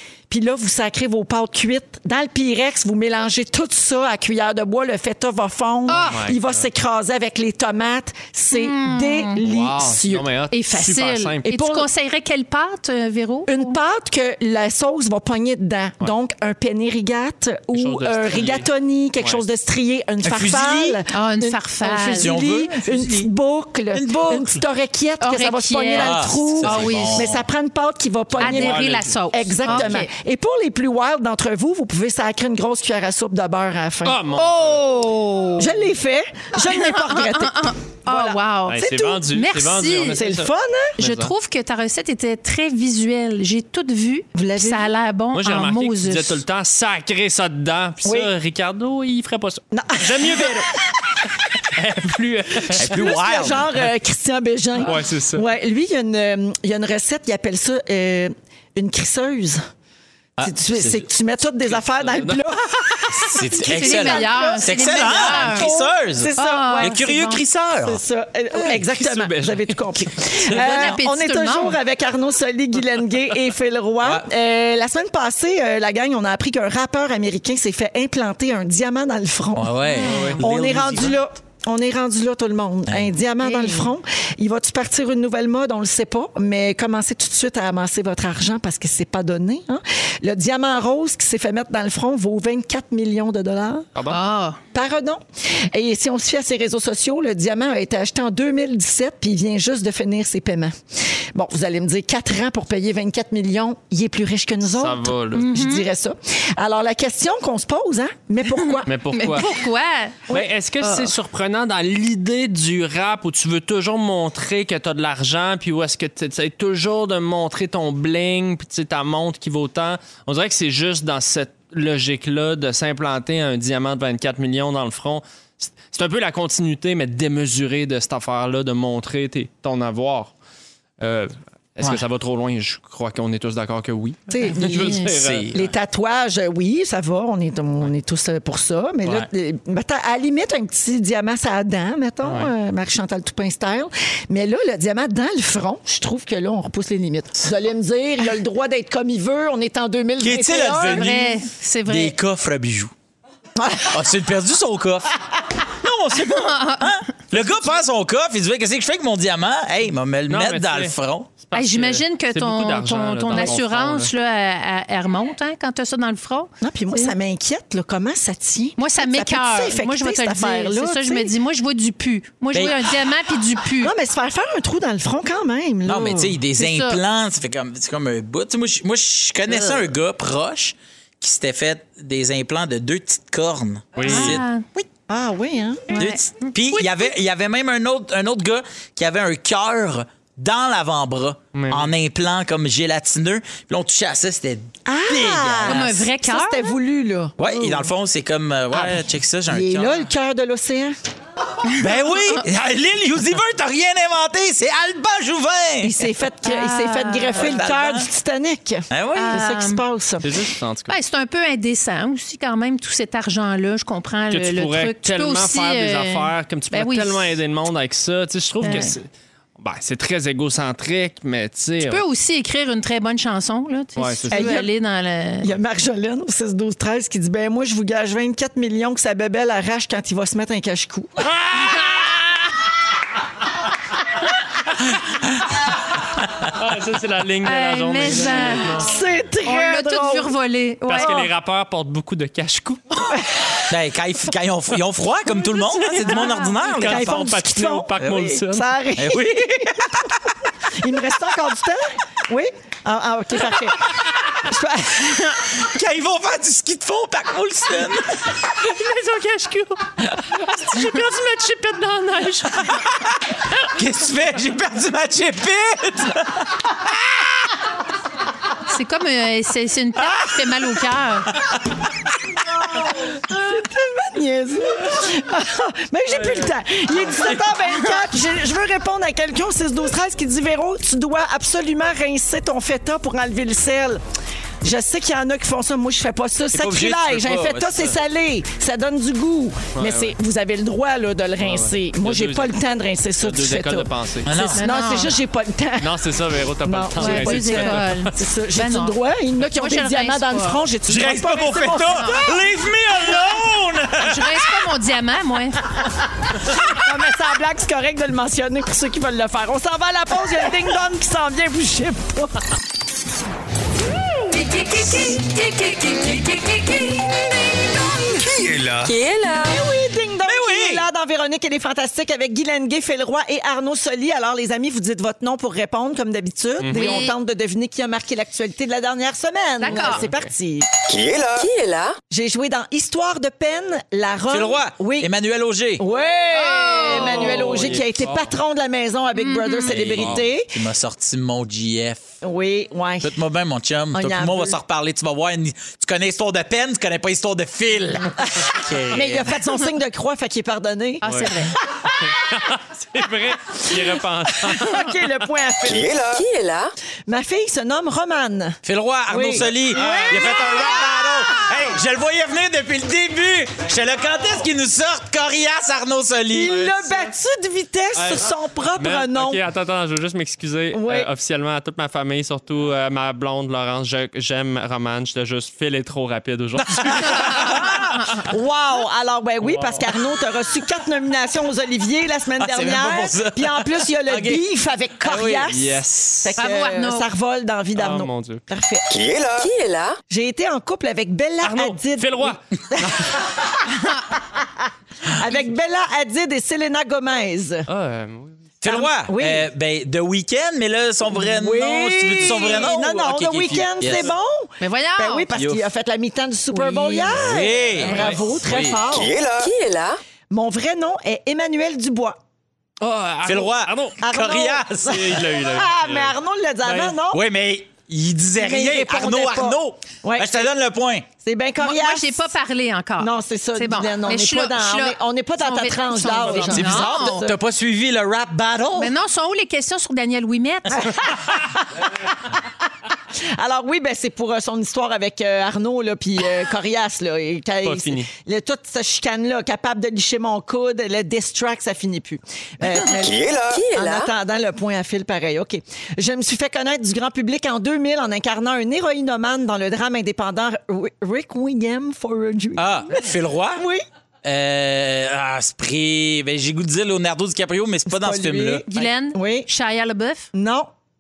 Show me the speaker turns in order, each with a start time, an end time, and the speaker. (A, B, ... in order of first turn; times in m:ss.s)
0:00.3-0:10.3 A
0:05.9-0:06.2 B
0:06.0-0:06.7 C
0:08.5-0:09.4 B
0:09.4-0:11.5 C
0:10.5-0:13.8 B
0:11.4-0:11.9 A
0:13.5-0:34.2 A
0:17.7-0:18.7 C
0:20.2-0:21.0 D
0:21.1-0:22.6 B
0:22.2-0:23.3 D
0:23.9-0:24.6 D
0:25.2-0:27.2 B
0:25.9-0:27.5 D
0:28.4-0:29.9 C
0:28.4-0:30.1 B
0:34.0-0:34.9 C
0:34.4-0:35.6 B
0:35.6-0:39.2 A
0:36.6-0:40.2 B
0:38.7-0:41.3 C
0:40.2-0:41.0 A
0:41.0-0:46.4 B
0:44.4-0:44.9 A
0:45.3-0:50.8 C
0:48.0-0:48.3 A
0:49.7-0:50.8 A
0:51.7-0:53.2 C
0:52.7-0:59.6 A
0:52.8-0:53.7 D
0:54.8-0:55.4 C
1:00.4-1:01.1 D
1:00.4-1:33.9 A
1:01.7-1:02.6 C
1:03.2-1:08.0 D
1:03.6-1:05.7 B
1:06.4-1:07.4 B
1:08.5-1:10.9 C
1:10.5-1:11.8 B
1:14.0-1:14.3 D
1:19.6-1:21.2 D
1:19.9-1:20.4 B
1:20.1-1:20.4 C
1:22.9-1:23.1 D
1:23.4-1:23.9 B
1:34.1-1:34.6 B
1:34.7-1:35.2 A
1:35.7-1:40.8 A
1:41.3-1:48.9 A
1:44.7-1:45.5 C
1:45.3-1:45.9 B
1:48.7-1:50.2 B
1:48.9-1:49.5 C
1:50.3-2:10.3 C
1:50.8-1:51.1 B
2:11.0-2:15.7 C
2:14.3-2:31.1 A
2:14.5-2:15.0 B
2:15.2-2:15.6 D
2:22.2-2:22.5 C
2:30.2-2:32.9 D
2:30.8-2:32.2 B
2:33.6-2:33.9 A
2:33.8-2:41.3 D
2:36.1-2:37.4 B
2:40.3-2:44.1 C
2:41.5-2:47.1 B
2:46.6-2:51.3 A
2:48.8-2:53.9 B
2:53.8-2:56.3 A
2:55.9-3:04.9 D
2:56.5-2:57.0 B
3:04.0-3:04.4 C
3:04.0-3:04.7 B
3:05.1-3:06.1 A
3:05.9-3:07.1 B
3:05.9-3:16.0 D
3:11.5-3:11.9 C
3:14.9-3:17.8 A
3:15.6-3:16.8 B
3:17.4-3:20.1 D
3:19.5-3:21.0 A
3:21.7-3:26.0 D
3:25.8-3:30.3 A
3:26.4-3:27.5 B
3:27.4-3:28.1 D
3:28.9-3:29.4 D
3:29.1-3:29.8 B
3:30.2-3:31.0 C
3:30.9-3:37.3 B
3:34.3-3:39.1 C
3:38.6-3:38.9 B
3:38.6-3:39.0 A
3:39.6-3:42.0 C
3:41.8-3:45.5 B
3:44.0-3:44.5 C
3:44.3-3:44.7 A
3:45.4-3:51.2 A
3:51.5-3:51.8 C
3:56.5-3:58.9 C
3:57.4-3:58.8 B
3:58.6-4:00.3 A
3:59.4-4:01.3 B
4:00.9-4:03.2 C
4:03.7-4:07.5 D
4:06.7-4:08.7 C
4:06.8-4:09.9 A
4:09.0-4:10.0 D
4:10.8-4:15.4 A
4:15.6-4:18.4 D
4:18.6-4:22.8 B
4:22.6-4:27.5 D
4:28.6-4:31.4 B
4:32.7-4:44.0 A
4:36.2-4:36.4 C
4:44.6-4:56.0 A
4:46.5-4:48.0 D
4:49.8-4:50.2 C
4:51.4-4:52.5 C
4:53.2-4:54.4 C
4:54.2-4:54.6 D
4:54.5-4:55.1 B
4:55.8-4:58.1 C
4:56.6-5:02.4 A
4:57.0-4:59.0 B
4:59.5-5:00.6 B
5:00.9-5:04.6 D
5:04.0-5:05.6 B
5:06.5-5:12.4 A
5:14.3-5:16.9 B
5:15.8-5:16.4 E
5:18.2-5:18.9 D
5:18.7-5:19.6 E
5:19.4-5:30.7 A
5:20.2-5:20.9 D
5:26.6-5:27.1 C
5:26.7-5:27.2 B
5:29.6-5:30.1 B
5:29.7-5:30.3 C
5:30.9-5:31.5 F
5:31.4-5:32.0 E
5:32.1-5:35.1 A
5:34.3-5:35.9 D
5:35.8-5:40.6 A
5:36.3-5:37.7 B
5:36.9-5:38.4 C
5:39.2-5:39.8 B
5:39.7-5:42.0 D
5:40.0-5:40.2 C
5:42.2-5:43.1 A
5:43.0-5:49.4 D
5:43.9-5:44.6 A
5:48.9-5:51.9 A
5:51.0-5:51.5 B
5:51.0-5:51.4 C
5:52.0-5:55.0 C
5:54.4-5:55.9 A
5:55.6-5:56.2 F
5:56.1-5:56.7 E
5:57.1-6:01.5 A
5:58.6-6:06.8 D
5:59.7-6:00.3 C
6:06.3-6:09.4 A
6:07.9-6:17.5 C
6:10.7-6:11.1 A
6:16.6-6:18.0 D
6:17.4-6:28.9 A
6:19.4-6:19.8 C
6:22.4-6:24.4 D
6:25.0-6:26.4 C
6:26.4-6:27.1 B
6:27.8-6:28.4 C
6:28.9-6:29.5 F
6:29.4-6:30.0 E
6:30.1-6:33.2 A
6:31.4-6:33.2 C
6:35.1-6:37.7 A
6:37.7-6:38.4 C
6:38.6-6:44.2 D
6:38.6-6:39.4 A
6:41.1-6:49.1 A
6:44.6-6:45.3 B
6:45.3-6:45.7 D
6:46.5-6:47.0 B
6:47.1-6:48.9 D
6:47.8-6:48.3 C
6:48.9-6:49.5 F
6:49.4-6:50.0 E
6:50.3-6:52.2 A
6:52.8-6:54.0 C
6:53.2-6:55.2 D
6:54.0-6:57.2 A
6:54.9-6:56.2 C
6:56.7-7:01.1 D
6:58.4-7:00.5 A
7:01.2-7:02.3 A
7:01.6-7:07.2 B
7:03.0-7:07.4 A
7:06.3-7:08.9 D
7:08.8-7:11.0 B
7:10.8-7:12.3 A
7:13.4-7:33.8 A
7:17.6-7:18.1 C
7:23.0-7:23.6 F
7:23.5-7:24.1 E
7:32.6-7:33.6 D
7:34.2-7:38.7 D
7:37.9-7:39.5 A
7:38.7-7:40.3 B
7:40.3-7:40.7 A